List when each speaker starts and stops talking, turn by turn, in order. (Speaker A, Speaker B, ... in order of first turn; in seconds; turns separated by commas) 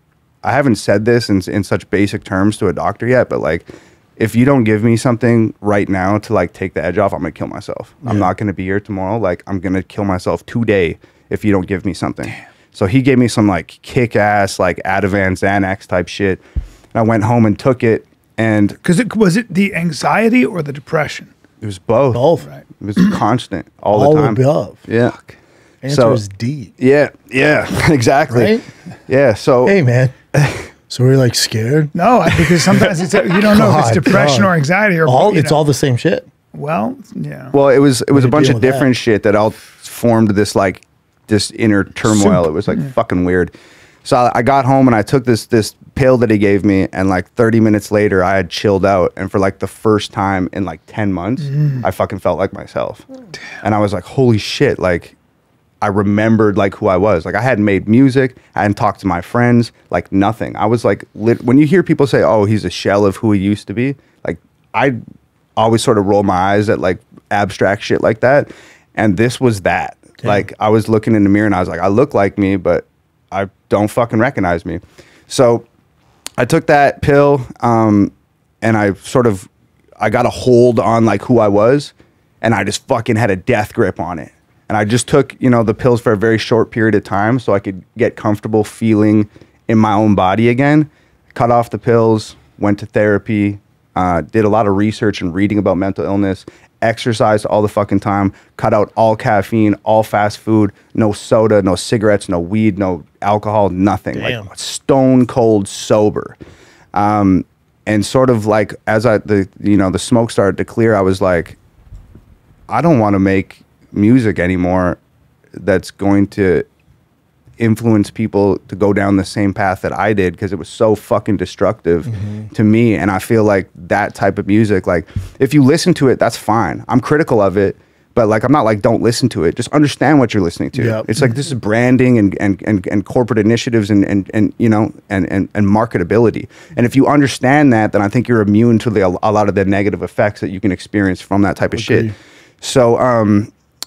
Speaker A: 0.4-16.4, Speaker A: 16.9-18.8, Speaker B: 18.8-21.3, Speaker A: 21.6-22.2, Speaker C: 22.1-22.5, Speaker A: 22.8-25.2, Speaker C: 23.9-24.8, Speaker C: 25.8-26.7, Speaker A: 25.9-26.2, Speaker A: 26.8-29.8, Speaker C: 28.3-28.6, Speaker C: 29.6-30.2, Speaker A: 30.4-30.6, Speaker C: 30.9-31.9, Speaker B: 31.9-35.6, Speaker C: 33.4-34.5, Speaker C: 35.0-36.3, Speaker B: 36.5-37.5, Speaker A: 37.5-43.5, Speaker C: 38.1-38.9, Speaker B: 42.1-42.9, Speaker A: 44.0-53.0, Speaker B: 51.5-51.8, Speaker A: 53.6-55.2, Speaker A: 55.8-65.0, Speaker A: 65.6-75.7, Speaker A: 76.4-79.5, Speaker A: 80.0-106.4, Speaker C: 104.1-104.5, Speaker A: 106.9-111.6, Speaker A: 112.7-115.0, Speaker A: 115.6-116.7, Speaker A: 117.6-142.1, Speaker C: 122.1-122.5, Speaker C: 130.8-131.1, Speaker C: 141.8-142.1, Speaker A: 142.6-143.5